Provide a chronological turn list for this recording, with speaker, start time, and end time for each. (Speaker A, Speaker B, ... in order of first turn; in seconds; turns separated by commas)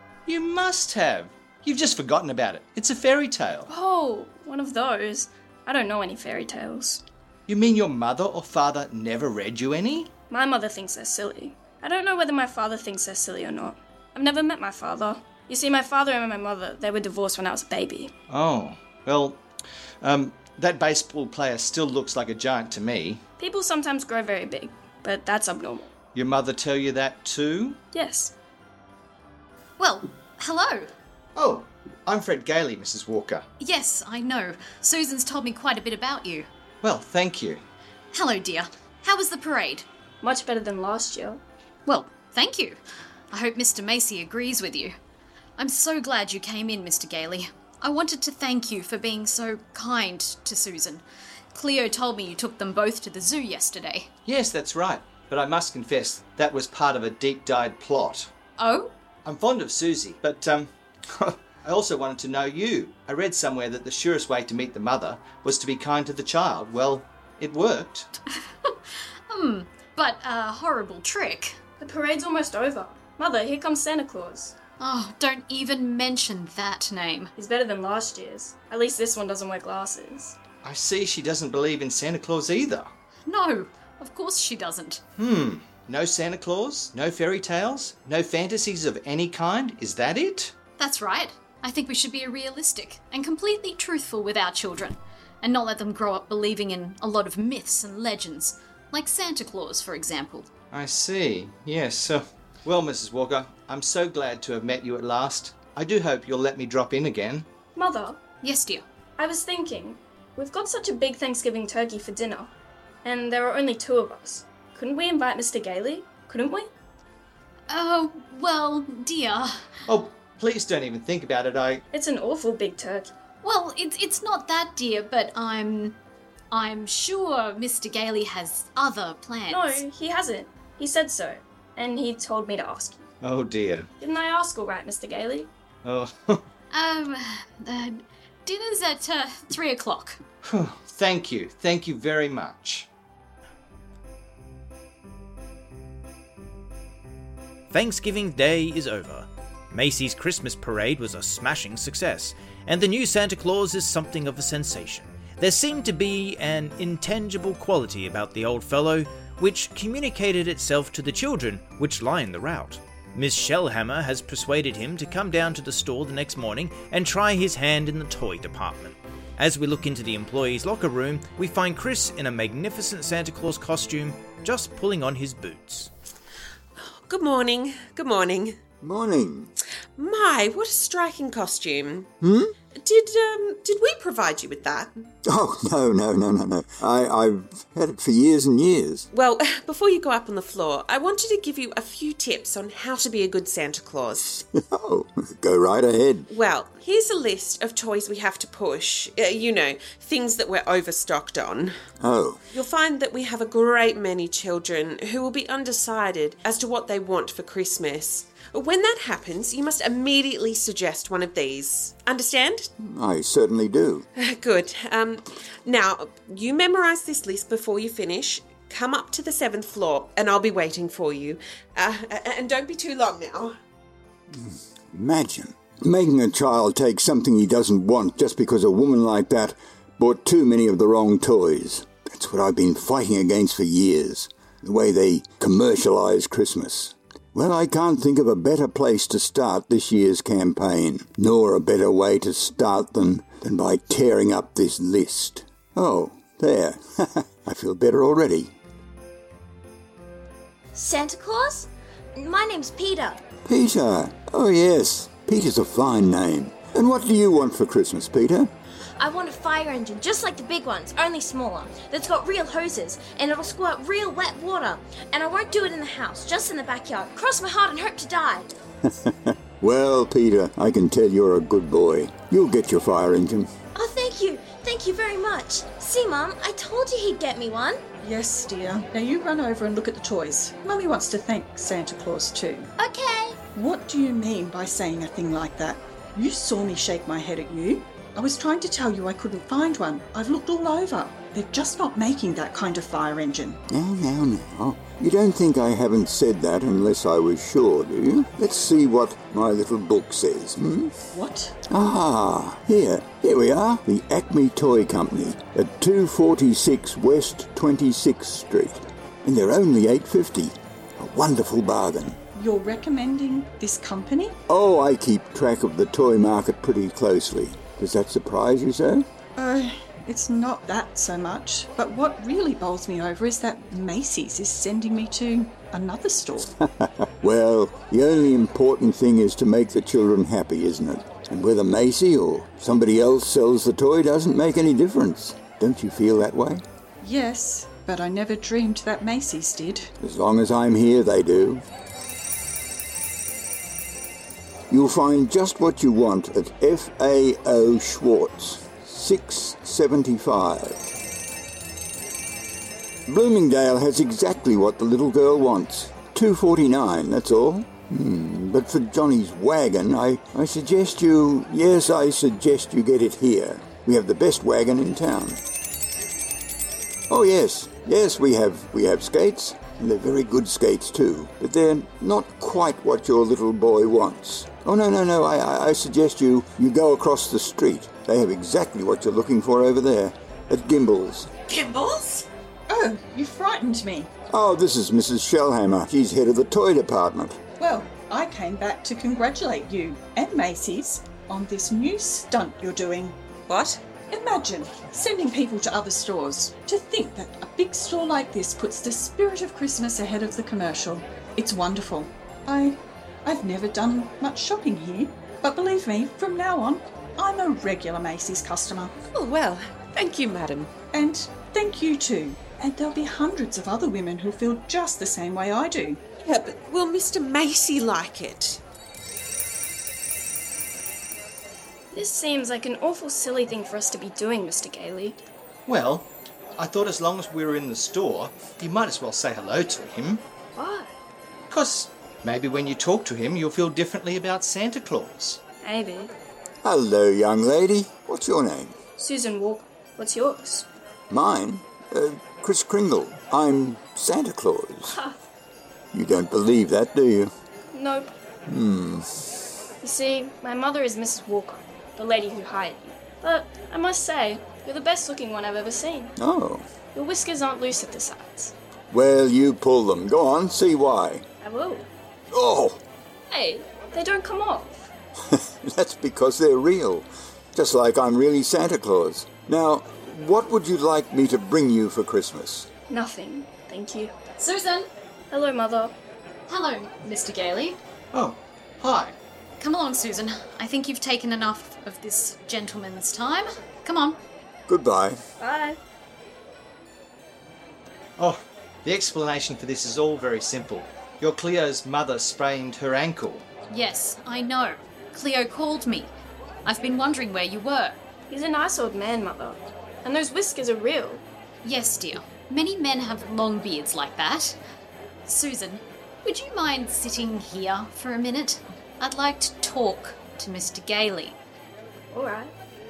Speaker A: 0.3-3.7, Speaker B: 3.7-7.0, Speaker A: 7.5-10.1, Speaker B: 10.3-18.1, Speaker A: 18.3-19.4, Speaker A: 20.0-23.2, Speaker B: 23.4-25.9, Speaker A: 26.1-27.8, Speaker B: 27.9-28.3, Speaker C: 29.8-30.9, Speaker A: 31.4-33.4, Speaker C: 33.6-36.5, Speaker A: 36.8-37.6, Speaker C: 38.1-39.9, Speaker B: 40.2-41.4, Speaker C: 41.9-42.8, Speaker C: 43.3-45.0, Speaker C: 45.6-54.1, Speaker A: 54.3-58.3, Speaker C: 58.6-58.9, Speaker A: 59.2-68.1, Speaker C: 69.3-71.6, Speaker B: 71.8-74.5, Speaker C: 74.8-77.3, Speaker B: 77.4-80.4, Speaker A: 80.6-82.9, Speaker C: 83.3-85.0, Speaker A: 85.2-90.5, Speaker C: 90.8-100.5, Speaker A: 100.7-107.5, Speaker B: 107.8-108.2, Speaker C: 108.4-108.8, Speaker B: 109.2-112.5, Speaker B: 113.0-116.7, Speaker C: 117.7-119.7, Speaker A: 119.9-121.8, Speaker B: 121.9-123.1, Speaker C: 123.4-126.0, Speaker C: 126.5-129.8, Speaker B: 129.5-133.1, Speaker A: 133.2-133.9, Speaker B: 134.0-135.5, Speaker A: 135.8-136.4, Speaker C: 136.7-140.2, Speaker A: 140.4-142.9, Speaker D: 147.7-175.9, Speaker E: 176.8-178.6, Speaker F: 178.8-179.5, Speaker E: 180.0-182.1, Speaker F: 182.2-182.6, Speaker E: 182.7-185.1, Speaker F: 185.2-189.1, Speaker E: 189.1-194.2, Speaker F: 194.2-196.3, Speaker E: 196.3-201.7, Speaker F: 202.0-202.4, Speaker E: 202.5-212.7, Speaker F: 212.8-214.1, Speaker E: 214.2-223.6, Speaker F: 224.3-248.6, Speaker G: 250.8-253.2, Speaker F: 253.5-258.5, Speaker G: 259.0-268.5, Speaker F: 268.9-273.5, Speaker G: 273.8-277.8, Speaker H: 278.0-282.7, Speaker G: 282.8-283.4, Speaker H: 283.6-293.6, Speaker F: 293.7-300.9, Speaker H: 301.1-301.6, Speaker F: 301.7-312.2, Speaker H: 312.4-314.4, Speaker F: 314.5-319.0, Speaker H: 319.4-326.5, Speaker F: 326.6-336.6, Speaker H: 337.0-339.9, Speaker F: 340.0-341.6, Speaker F: 344.7-350.9, Speaker F: 353.1-365.4, Speaker F: 367.1-381.3, Speaker E: 381.5-382.2, Speaker H: 382.7-384.1, Speaker F: 384.3-387.4, Speaker H: 387.6-393.2, Speaker E: 393.5-393.8, Speaker H: 394.0-408.9, Speaker E: 409.1-410.7, Speaker H: 410.9-416.0, Speaker E: 416.2-418.6, Speaker B: 421.9-425.2, Speaker A: 425.7-430.2, Speaker B: 430.6-430.9, Speaker A: 431.5-435.4, Speaker B: 435.6-436.1, Speaker F: 436.6-438.8, Speaker B: 439.0-440.7, Speaker F: 441.1-445.0, Speaker F: 445.9-447.3, Speaker B: 447.7-448.1, Speaker F: 448.5-449.1, Speaker B: 449.8-456.1, Speaker F: 456.2-456.7, Speaker B: 456.9-458.5, Speaker F: 458.9-461.2, Speaker B: 461.4-461.9, Speaker F: 462.3-462.8, Speaker B: 463.3-464.8, Speaker F: 465.3-472.7, Speaker B: 472.9-474.1, Speaker C: 474.4-474.9, Speaker B: 475.3-475.9, Speaker C: 476.5-477.8, Speaker A: 478.1-479.2, Speaker C: 479.6-484.2, Speaker F: 484.7-485.2, Speaker B: 485.4-485.8, Speaker A: 488.2-493.5, Speaker C: 493.7-496.1, Speaker C: 496.6-498.0, Speaker B: 498.3-501.2, Speaker C: 501.6-504.6, Speaker C: 505.3-511.4